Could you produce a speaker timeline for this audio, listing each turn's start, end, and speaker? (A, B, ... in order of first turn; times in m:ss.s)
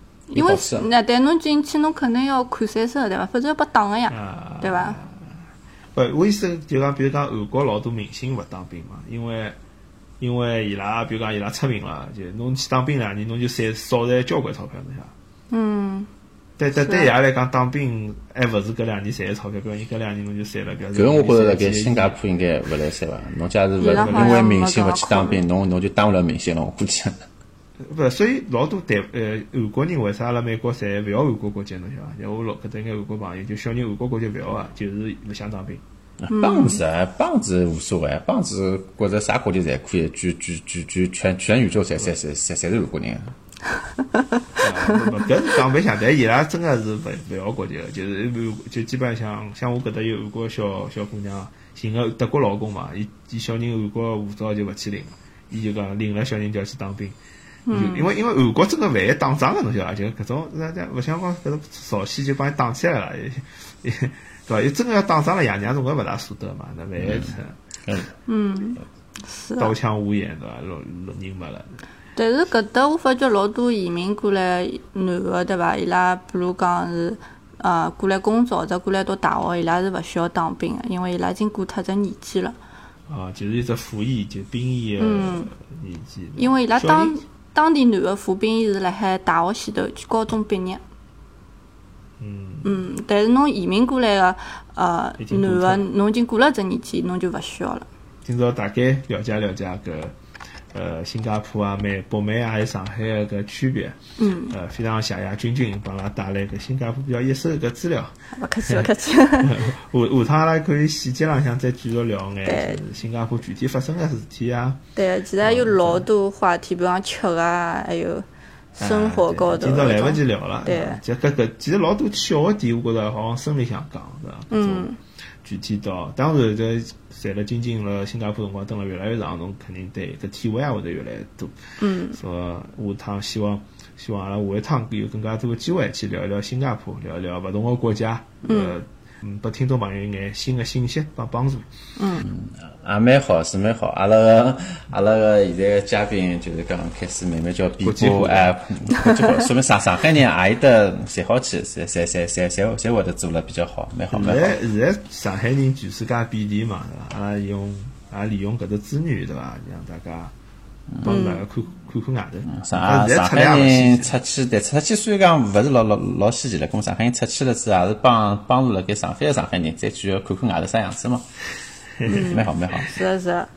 0:00.3-0:05.0 A
0:00.4-0:00.9 B
0:04.1-0:05.1 C
0:06.0-0:09.6 C
0:10.2-0:15.1 C
0:15.5-0:16.1 A
0:16.6-0:22.2 C
0:16.8-0:17.1 A
0:20.9-0:27.2 B
0:23.8-0:25.4 A
0:24.0-0:24.4 C
0:27.8-0:35.8 C
0:36.2-0:43.4 B
0:36.3-0:36.8 A
0:44.1-0:45.0 A
0:44.6-0:57.2 C
0:57.7-0:58.1 A
0:57.7-1:07.6 C
1:07.0-1:08.1 B
1:08.3-1:09.7 A
1:09.6-1:11.7 C
1:12.2-1:22.6 A
1:23.1-1:27.2 C
1:25.0-1:25.5 A
1:26.4-1:30.8 A
1:32.2-1:32.8 C
1:32.6-1:37.9 A
1:35.2-1:35.8 C
1:38.2-1:40.2 C
1:40.7-1:44.0 C
1:44.2-1:44.6 A
1:44.5-1:48.1 C
1:48.3-1:49.7 A
1:48.7-1:54.8 C
1:52.4-1:52.8 A
1:55.0-2:01.0 A
1:55.4-1:56.1 C
1:58.8-2:04.9 C
2:04.5-2:05.0 A
2:05.4-2:11.6 C
2:11.8-2:12.2 A
2:12.1-2:21.7 C
2:18.4-2:18.8 A
2:22.0-2:22.3 A
2:22.2-2:34.6 B
2:27.8-2:28.5 C
2:34.1-2:40.3 C
2:41.0-2:44.2 C
2:41.0-2:41.4 A
2:42.5-2:51.2 B
2:52.0-2:52.3 C
2:52.0-2:53.5 A
2:52.2-2:52.9 B